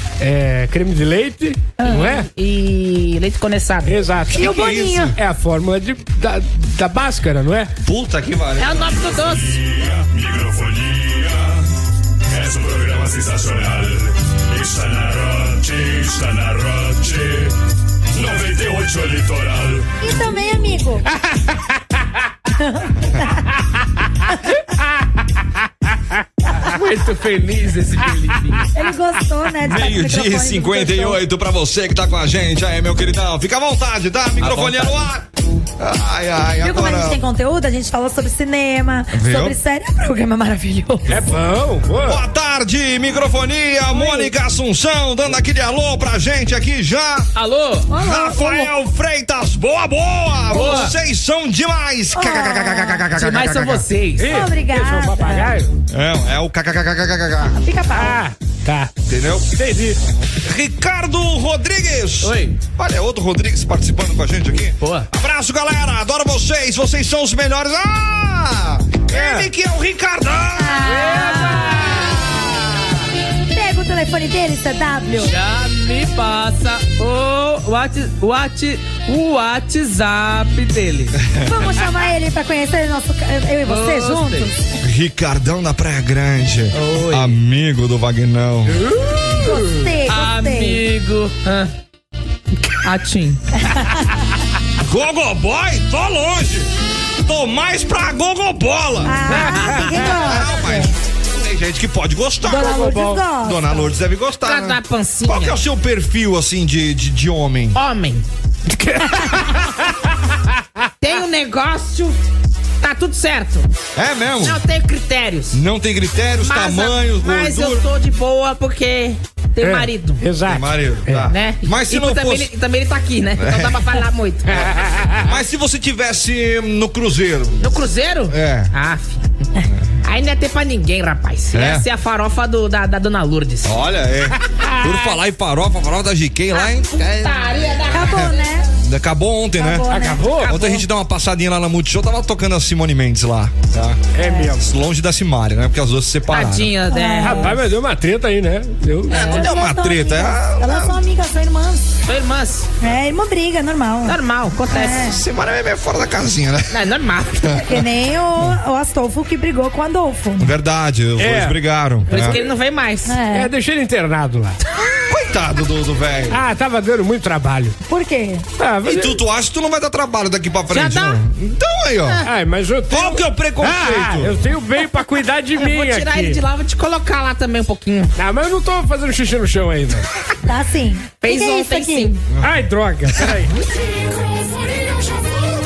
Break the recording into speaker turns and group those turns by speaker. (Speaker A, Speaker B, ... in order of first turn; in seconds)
Speaker A: 0.2-2.3, 3.8-7.7, 41.1-42.2, 54.2-55.7, 57.9-58.9, 59.6-60.0, 69.1-69.5, 99.4-99.9, 102.5-103.2, 108.7-109.7, 119.6-121.3, 124.5-125.3, 134.5-135.0, 139.9-140.6, 144.1-144.7, 147.2-149.3, 161.2-161.6, 163.3-164.6, 166.3-167.7, 168.6-169.2, 172.2-176.4, 178.2-180.1, 182.4-185.1
Speaker B: 1.9-4.0, 8.6-9.6, 26.6-28.7, 34.4-35.0, 47.4-47.9, 50.5-50.9, 53.1-54.4, 62.2-62.6, 64.8-65.1, 71.3-72.0, 75.2-81.2, 83.7-84.5, 86.7-87.4, 90.1-91.7, 92.8-93.4, 104.4-105.6, 107.7-108.2, 111.0-112.2, 112.8-113.7, 114.4-115.6, 116.4-120.2, 121.3-124.5, 127.6-129.3, 130.0-133.7, 136.5-138.6, 146.3-147.5, 149.2-149.5, 152.1-152.7, 154.1-155.0, 156.7-157.5, 162.1-163.2, 170.7-171.2, 175.6-178.1, 181.2-182.2
Speaker C: 4.3-5.1, 20.0-21.1, 22.6-23.4, 28.7-31.2, 36.6-41.2, 43.9-44.2, 47.9-48.7, 52.1-53.0, 54.2-55.6, 57.5-58.2, 70.6-72.3, 73.5-75.3, 81.5-84.5, 89.4-90.8, 93.7-94.0, 99.0-100.9, 102.5-103.9, 137.9-138.7, 139.6-140.8, 146.9-147.6, 149.1-151.9, 152.8-154.2, 154.7-155.2, 157.5-160.5, 163.1-163.5, 167.9-168.4, 180.4-182.1
Speaker D: 4.4-5.1, 7.8-9.2, 29.6-35.3, 35.8-37.2, 39.1-39.5, 42.0-47.3, 47.9-53.8, 55.9-57.5, 59.1-59.5, 60.4-71.0, 81.2-81.7, 84.8-88.8, 94.8-96.7, 97.2-107.8, 114.0-114.6, 115.5-117.8, 120.5-122.5, 123.4-123.8, 125.2-127.6, 128.3-128.7, 131.5-131.8, 133.6-138.3, 138.8-139.8, 140.4-144.0, 144.6-146.7, 149.1-151.0, 155.0-156.8, 157.4-157.8, 160.4-162.4, 165.1-166.4, 168.8-172.2, 172.9-174.4
Speaker E: 8.9-11.6, 12.3-17.5, 18.1-19.9